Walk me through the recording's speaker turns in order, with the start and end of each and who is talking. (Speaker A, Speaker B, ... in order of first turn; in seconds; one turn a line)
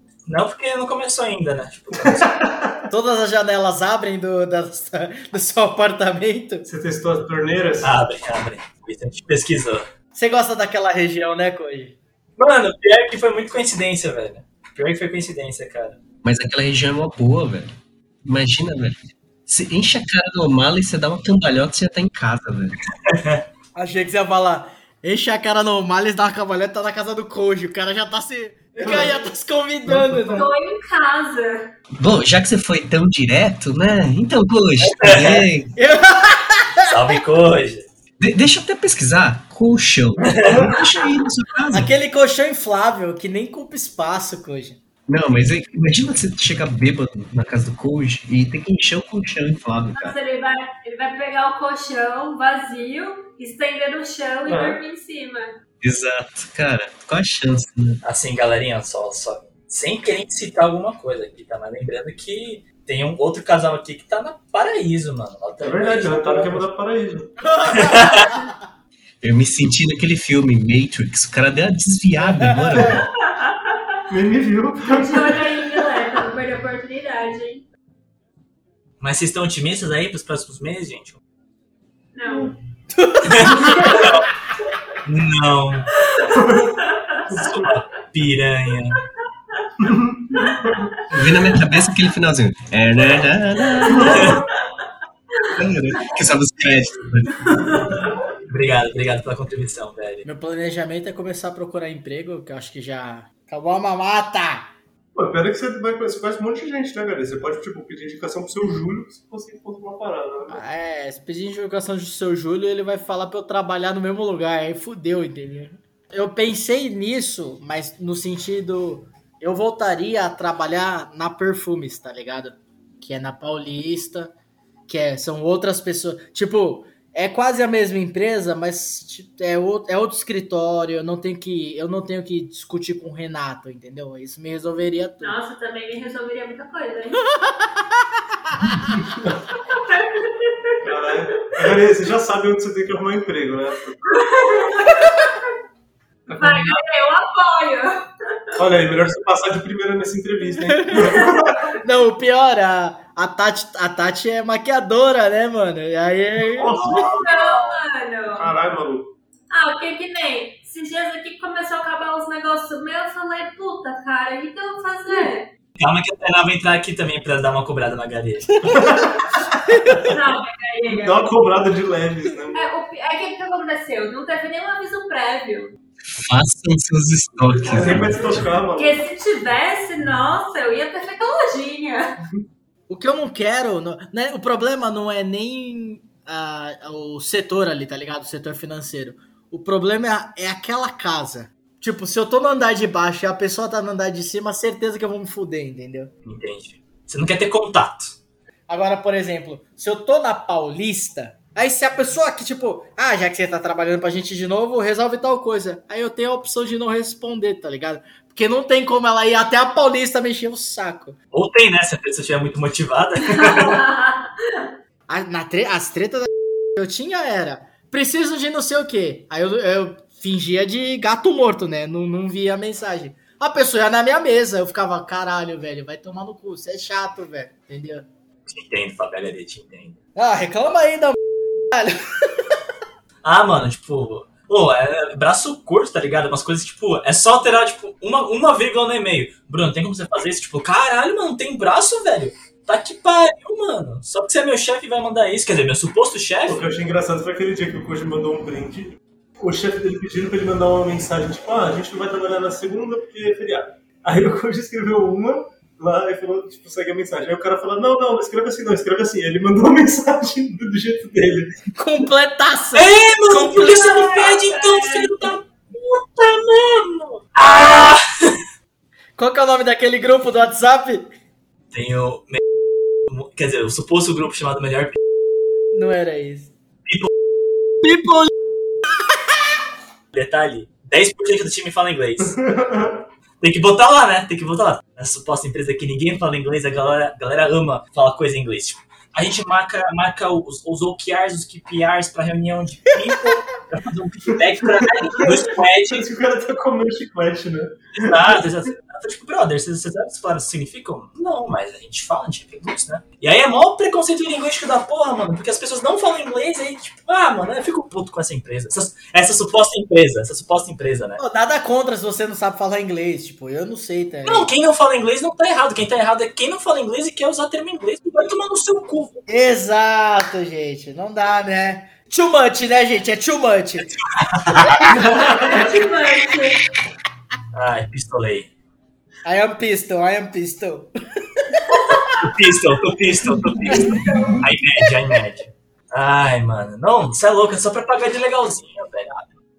Speaker A: 0.3-2.5
Speaker B: 2.1-2.8
Speaker C: 2.9-6.7
Speaker B: 6.7-8.0
Speaker A: 7.8-9.9
Speaker C: 10.2-12.0
Speaker A: 12.4-16.0
Speaker D: 16.2-17.7
Speaker D: 18.2-22.8
Speaker A: 23.1-23.4
Speaker C: 23.8-30.5
Speaker B: 28.8-29.2
Speaker B: 29.9-30.5
Speaker E: 30.3-31.7
Speaker D: 32.0-35.8
Speaker A: 34.8-35.5
Speaker C: 35.8-36.9
Speaker A: 36.9-37.9
Speaker D: 38.2-41.9
Speaker A: 40.3-40.6
Speaker B: 40.4-40.8
Speaker C: 41.7-44.8
Speaker D: 45.1-50.2
Speaker E: 50.0-55.6
Speaker B: 54.5-54.8
Speaker D: 55.8-58.0
Speaker A: 58.0-66.7
Speaker B: 65.6-67.4
Speaker C: 67.4-68.5
Speaker A: 67.7-68.3
Speaker D: 69.2-73.1
Speaker C: 72.4-72.8
Speaker E: 73.2-74.0
Speaker B: 74.1-75.5
Speaker E: 74.9-77.6
Speaker A: 79.0-81.2
Speaker E: 82.1-82.5
Speaker C: 82.9-84.0
Speaker A: 83.2-84.2
Speaker B: 83.5-83.9
Speaker A: 85.1-85.9
Speaker E: 86.0-87.3
Speaker B: 86.3-86.8
Speaker B: 87.3-87.7
Speaker A: 87.3-89.0
Speaker B: 89.8-90.9
Speaker D: 91.1-94.3
Speaker E: 93.8-94.4
Speaker B: 93.9-94.4
Speaker A: 94.0-94.4
Speaker D: 95.5-97.5
Speaker E: 97.5-98.0
Speaker A: 98.5-100.3
Speaker C: 100.2-104.7
Speaker B: 105.2-110.6
Speaker C: 110.5-124.3
Speaker C: 124.9-135.4
Speaker E: 135.2-137.3
Speaker C: 138.5-138.9
Speaker B: 138.9-139.3
Speaker E: 139.6-140.8
Speaker B: 140.8-144.3
Speaker E: 144.1-145.5
Speaker B: 146.3-146.8
Speaker E: 146.3-148.6
Speaker B: 148.6-151.7
Speaker C: 150.7-151.2
Speaker E: 150.9-151.5
Speaker C: 151.8-156.8
Speaker B: 156.4-157.3
Speaker A: 156.7-157.8
Speaker E: 156.9-158.5
Speaker B: 158.3-159.1
Speaker E: 159.5-165.5
Speaker A: 165.8-168.9
Speaker B: 168.7-169.4
Speaker C: 169.7-170.1
Speaker E: 170.0-171.3
Speaker B: 170.9-172.7
Speaker E: 172.5-175.8
Speaker D: 176.1-178.4
Speaker B: 177.6-179.0
Speaker E: 177.8-178.1
Speaker E: 178.7-182.2
Speaker C: 182.9-196.1
Speaker A: 196.2-198.2
Speaker C: 198.7-211.2
Speaker A: 211.3-213.8
Speaker E: 213.2-214.7
Speaker C: 215.1-228.1
Speaker A: 228.5-230.0
Speaker C: 230.2-231.2
Speaker C: 231.7-232.4
Speaker A: 233.2-246.7
Speaker B: 246.5-261.5
Speaker C: 261.8-264.1
Speaker A: 262.7-268.4
Speaker E: 263.9-265.3
Speaker C: 269.2-271.1
Speaker A: 271.7-272.4
Speaker A: 273.1-275.0
Speaker C: 275.7-276.5
Speaker C: 277.8-278.3
Speaker A: 280.1-282.4
Speaker B: 282.2-283.1
Speaker A: 283.4-296.1
Speaker B: 294.6-298.4
Speaker A: 298.0-311.2
Speaker C: 311.2-314.5
Speaker A: 314.2-319.2
Speaker C: 319.3-323.9
Speaker A: 323.9-324.8
Speaker C: 324.8-325.5
Speaker E: 324.9-326.6
Speaker B: 324.9-325.8
Speaker A: 327.5-328.5
Speaker C: 329.2-331.8
Speaker E: 331.7-332.1
Speaker A: 332.2-339.2
Speaker E: 333.6-334.4